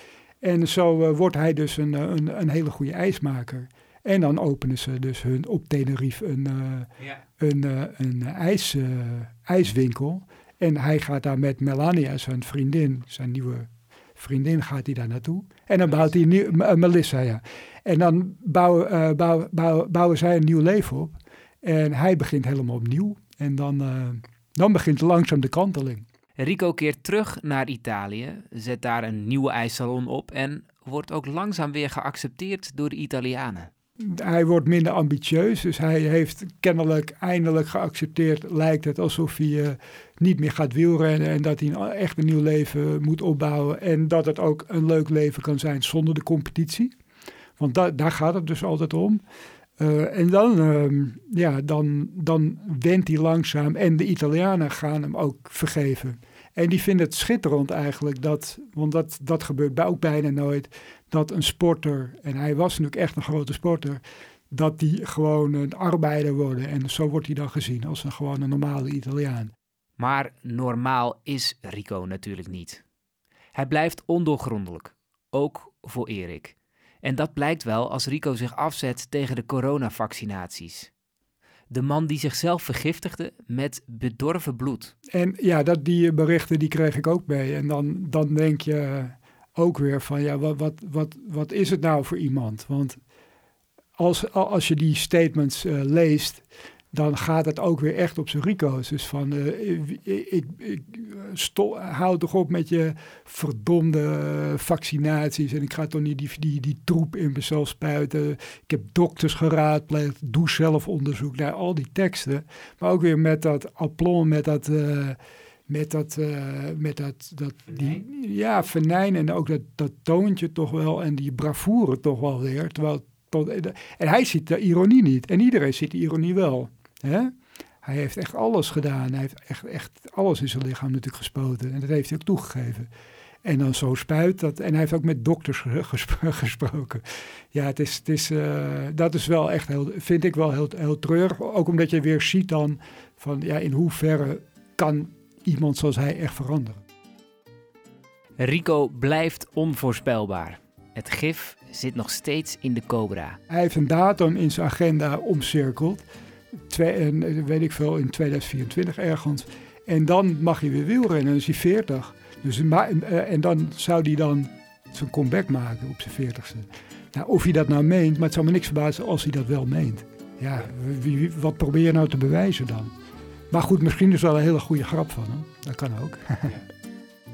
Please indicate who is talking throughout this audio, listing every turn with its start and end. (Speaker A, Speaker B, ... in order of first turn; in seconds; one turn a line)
Speaker A: 0.4-26.1
Speaker B: 26.4-33.7
Speaker A: 34.0-46.9
Speaker A: 47.6-49.2
Speaker A: 49.8-69.5
Speaker B: 70.0-72.8
Speaker B: 73.5-80.9
Speaker B: 81.7-84.9
Speaker A: 85.1-93.0
Speaker A: 94.0-132.9
Speaker A: 133.4-146.8
Speaker B: 148.4-153.4
Speaker A: 153.5-156.1
Speaker A: 156.7-172.9
Speaker A: 173.5-176.6